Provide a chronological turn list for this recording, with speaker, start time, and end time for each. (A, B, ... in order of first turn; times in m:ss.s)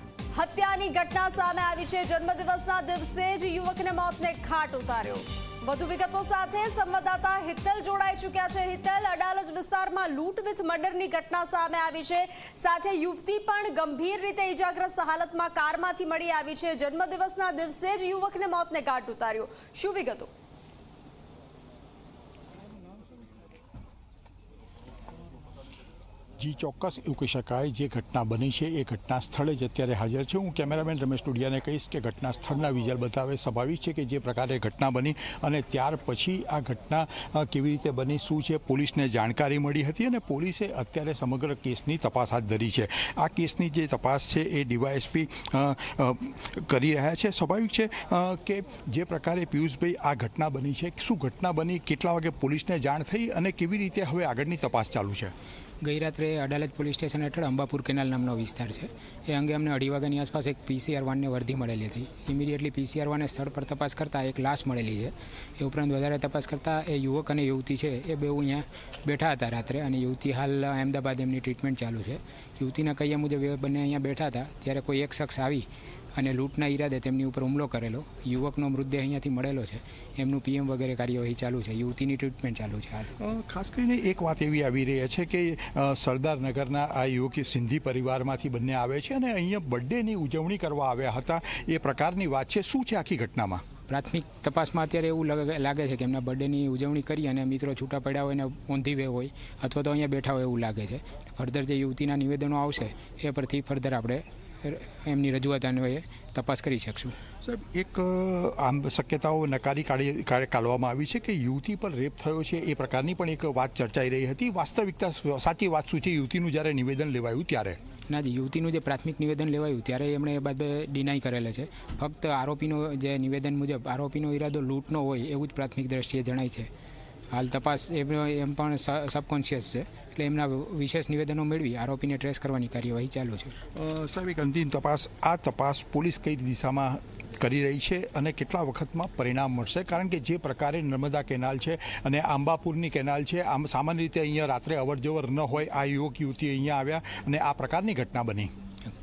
0:00.3-0:20.3 A
0:26.4-0:55.3 B
0:55.8-1:23.1 C
1:23.2-1:33.6 B
1:33.9-1:47.2 C
1:47.4-1:57.8 B
1:58.1-2:06.7 C
2:07.3-2:13.6 C
2:13.7-2:28.5 B